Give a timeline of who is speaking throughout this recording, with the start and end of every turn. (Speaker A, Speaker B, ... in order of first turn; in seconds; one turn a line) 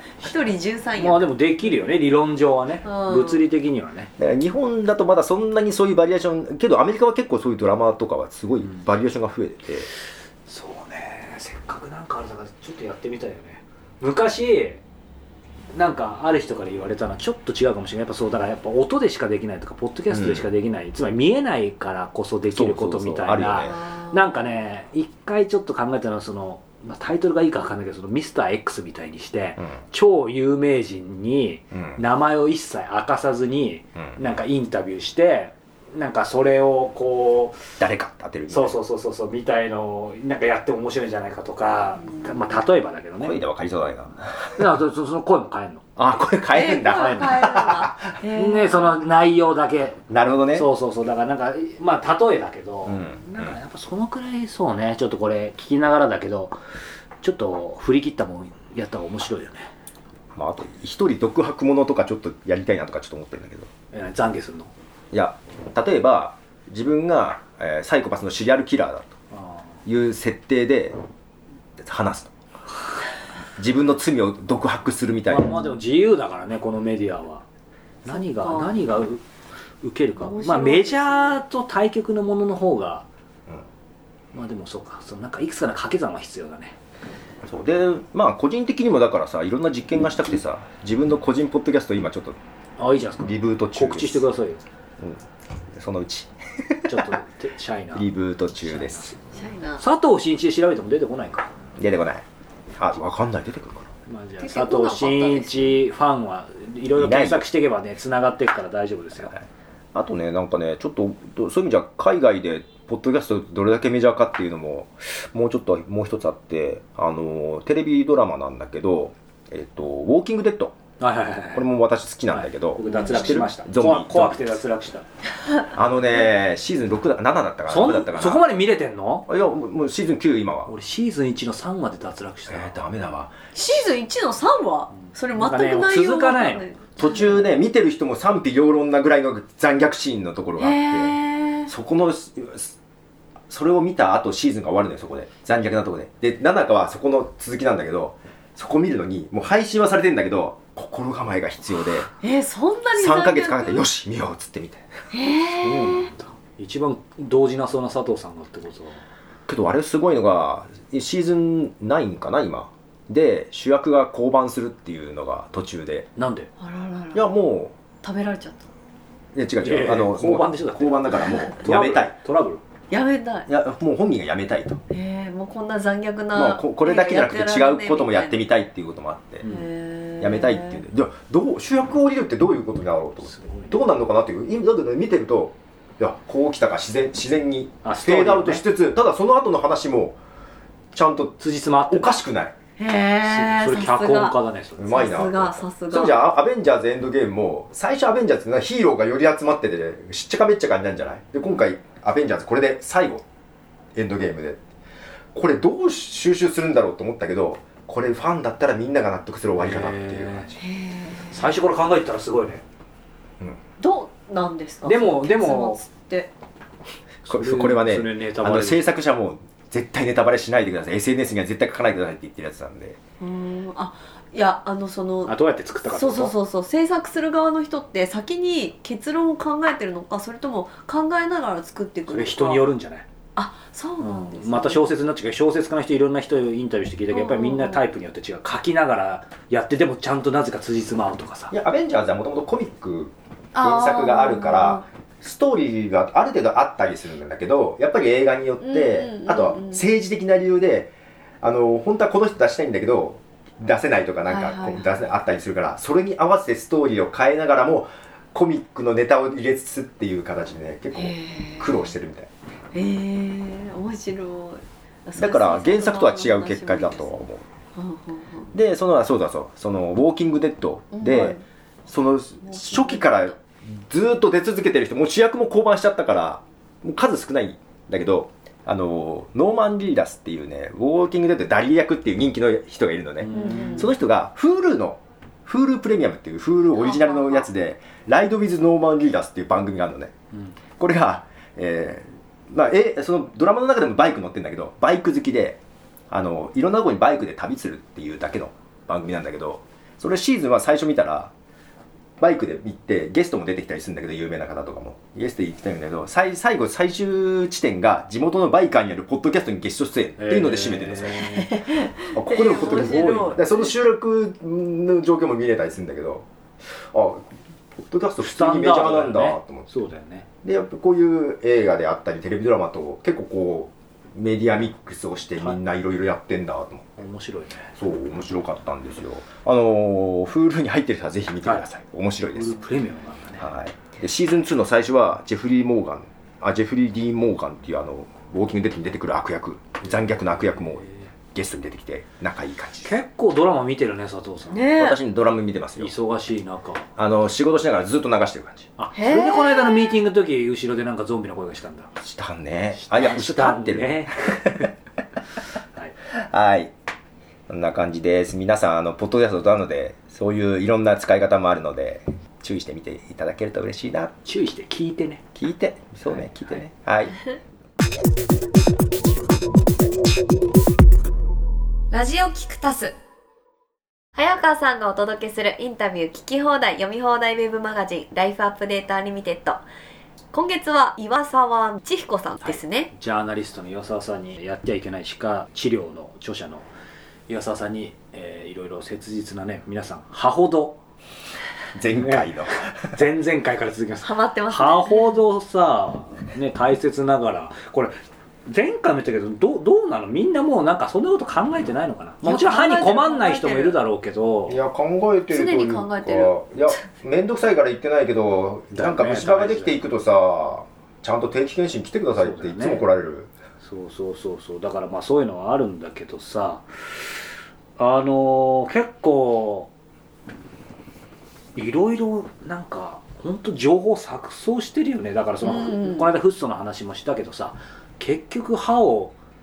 Speaker A: 0.2-1.3
Speaker B: 1.0-4.1
Speaker A: 2.8-3.5
Speaker C: 4.2-9.9
Speaker B: 10.5-14.8
Speaker B: 15.7-37.7
Speaker C: 20.1-20.5
Speaker C: 22.5-23.8
Speaker A: 23.6-24.5
Speaker C: 31.7-32.0
Speaker C: 34.0-34.2
Speaker C: 37.8-38.8
Speaker B: 38.5-43.4
Speaker A: 42.0-42.6
Speaker C: 43.2-44.6
Speaker B: 44.6-45.9
Speaker C: 46.0-48.2
Speaker A: 46.5-49.0
Speaker B: 46.9-47.6
Speaker B: 48.3-50.0
Speaker C: 50.1-50.7
Speaker B: 50.5-56.6
Speaker C: 52.9-53.6
Speaker B: 57.2-59.7
Speaker C: 60.4-63.7
Speaker B: 63.9-64.7
Speaker C: 65.1-69.2
Speaker B: 69.3-69.7
Speaker C: 69.8-71.0
Speaker C: 71.8-72.3
Speaker C: 73.6-75.5
Speaker B: 75.3-77.5
Speaker A: 78.0-79.0
Speaker B: 78.0-79.2
Speaker B: 79.8-83.1
Speaker A: 80.2-81.4
Speaker B: 84.3-86.8
Speaker C: 87.4-92.4
Speaker B: 92.8-94.6
Speaker C: 93.2-94.3
Speaker C: 95.0-97.2
Speaker B: 96.9-98.1
Speaker C: 97.9-99.1
Speaker B: 98.6-99.2
Speaker A: 99.3-99.8
Speaker B: 99.8-101.5
Speaker C: 101.8-102.2
Speaker C: 102.8-103.9
Speaker B: 104.1-109.3
Speaker A: 104.4-105.8
Speaker C: 107.0-107.5
Speaker C: 109.2-120.8
Speaker B: 121.0-121.7
Speaker C: 121.5-124.5
Speaker B: 122.3-125.0
Speaker A: 122.8-123.5
Speaker C: 125.7-128.5
Speaker B: 127.7-129.3
Speaker C: 129.3-130.7
Speaker B: 130.7-132.9
Speaker C: 132.5-133.5
Speaker A: 133.5-137.4
Speaker B: 135.3-136.7
Speaker C: 137.0-142.8
Speaker A: 140.6-141.7
Speaker C: 143.5-152.1
Speaker A: 152.2-153.8
Speaker C: 152.9-154.9
Speaker A: 155.1-156.1
Speaker B: 155.6-159.0
Speaker C: 159.5-166.1
Speaker B: 166.2-166.5
Speaker A: 166.6-167.3
Speaker C: 167.1-167.8
Speaker A: 168.0-168.7
Speaker C: 169.3-172.2
Speaker B: 169.6-172.6
Speaker A: 172.9-173.5
Speaker C: 173.5-174.8
Speaker A: 174.9-178.4
Speaker C: 176.3-179.5
Speaker B: 179.4-179.7
Speaker A: 179.4-180.8
Speaker C: 180.2-190.2
Speaker B: 183.2-183.8
Speaker B: 187.8-188.6
Speaker C: 190.9-192.6
Speaker B: 191.4-192.2
Speaker A: 192.8-196.2
Speaker B: 193.2-195.2
Speaker C: 194.8-203.3
Speaker C: 203.9-204.6
Speaker C: 205.3-210.6
Speaker B: 209.6-210.5
Speaker A: 210.6-211.5
Speaker B: 211.3-212.6
Speaker A: 213.8-216.3
Speaker B: 214.8-215.8
Speaker B: 217.3-218.9
Speaker C: 217.3-223.0
Speaker A: 223.2-225.3
Speaker B: 225.3-226.3
Speaker A: 225.9-232.7
Speaker B: 232.1-233.1
Speaker A: 233.4-234.9
Speaker B: 234.0-241.5
Speaker A: 237.1-237.8
Speaker C: 241.5-262.3
Speaker A: 243.5-244.8
Speaker A: 248.6-249.8
Speaker A: 254.3-254.9
Speaker A: 260.9-261.9
Speaker A: 262.7-267.1
Speaker C: 265.2-267.5
Speaker A: 267.8-268.5
Speaker C: 268.5-290.1
Speaker A: 270.9-271.4
Speaker A: 272.4-273.3
Speaker B: 283.2-283.9
Speaker A: 283.3-283.9
Speaker A: 286.8-287.5
Speaker C: 290.8-301.3
Speaker C: 302.2-311.4
Speaker B: 310.2-311.6
Speaker A: 311.4-313.7
Speaker C: 312.1-317.3
Speaker B: 312.6-313.4
Speaker C: 317.9-319.7
Speaker B: 318.2-320.3
Speaker C: 320.4-327.0
Speaker B: 327.0-327.7
Speaker C: 327.8-332.6
Speaker B: 332.3-333.5
Speaker C: 333.4-343.0
Speaker B: 342.8-344.7
Speaker A: 344.5-345.0
Speaker C: 344.8-345.9
Speaker B: 345.8-346.9
Speaker C: 347.0-348.7
Speaker B: 348.8-351.9
Speaker A: 348.9-350.0
Speaker C: 352.0-354.7
Speaker B: 352.8-354.4
Speaker C: 356.1-356.7
Speaker C: 357.5-364.1
Speaker B: 364.2-365.2
Speaker C: 365.4-367.1
Speaker A: 371.9-372.9
Speaker A: 374.2-379.6
Speaker A: 380.3-382.9
Speaker B: 382.4-386.7
Speaker B: 387.3-390.8
Speaker C: 391.7-393.0
Speaker B: 391.9-398.0
Speaker A: 394.0-395.2
Speaker B: 398.5-404.6
Speaker A: 402.2-403.8
Speaker C: 404.5-413.3
Speaker A: 405.3-406.4
Speaker B: 408.7-409.8
Speaker B: 412.2-412.8
Speaker B: 413.6-417.2
Speaker B: 417.8-419.7
Speaker B: 421.6-429.1
Speaker A: 425.4-426.1